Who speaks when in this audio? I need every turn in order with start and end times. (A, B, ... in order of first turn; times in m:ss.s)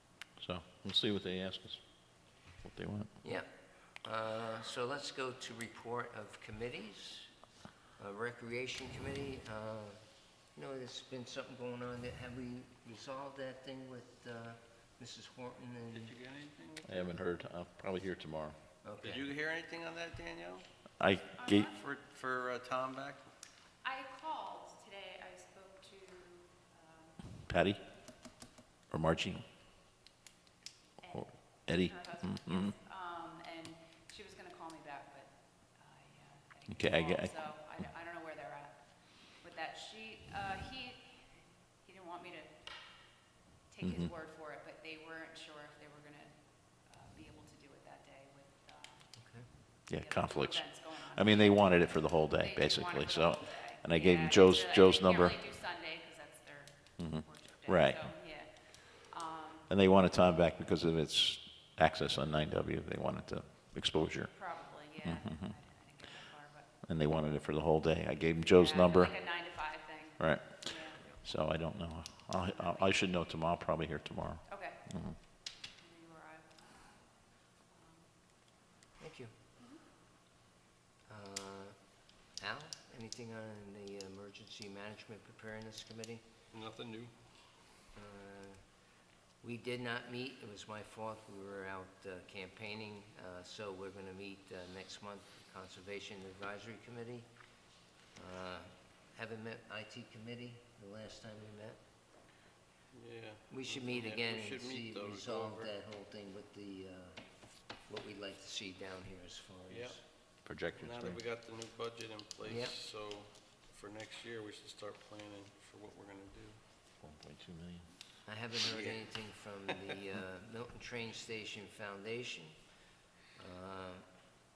0:00.4-0:01.8 A
0:02.6-0:03.1 A
0:03.2-0:03.5 B
0:04.0-0:07.3 B
0:08.0-0:10.0 B
0:10.5-0:16.1 B
0:15.9-0:17.1 C
0:16.8-0:18.6 A
0:18.8-0:19.2 B
0:19.0-0:20.6 C
0:21.0-0:21.7 A
0:21.4-0:21.7 D
0:21.6-0:23.2 C
0:23.8-0:27.2 D
0:27.4-0:29.4 A
0:31.0-0:49.2 D
0:31.1-0:32.7 A
0:36.7-0:37.8 A
0:43.8-0:44.1 A
0:49.2-0:49.5 B
0:49.8-0:59.7 D
0:49.9-0:55.4 A
0:57.0-0:58.1 A
0:59.7-1:05.6 A
1:04.3-1:06.7 D
1:06.8-1:15.2 A
1:08.5-1:11.1 D
1:12.6-1:13.0 D
1:14.5-1:14.8 D
1:15.6-1:18.1 D
1:19.0-1:19.3 B
1:21.1-1:21.7 B
1:22.4-1:26.2 B
1:26.5-1:27.1 C
1:27.9-1:28.6 B
1:29.4-1:37.3 B
1:38.2-1:41.8 B
1:42.9-1:45.7 C
1:43.5-1:47.2 B
1:47.8-1:50.0 B
1:49.7-1:50.0 C
1:50.4-1:51.2 A
1:50.5-1:56.6 C
1:52.4-1:52.8 B
1:57.0-1:57.9 A
1:58.2-2:02.5 B
1:58.6-1:59.0 C
2:03.4-2:04.0 B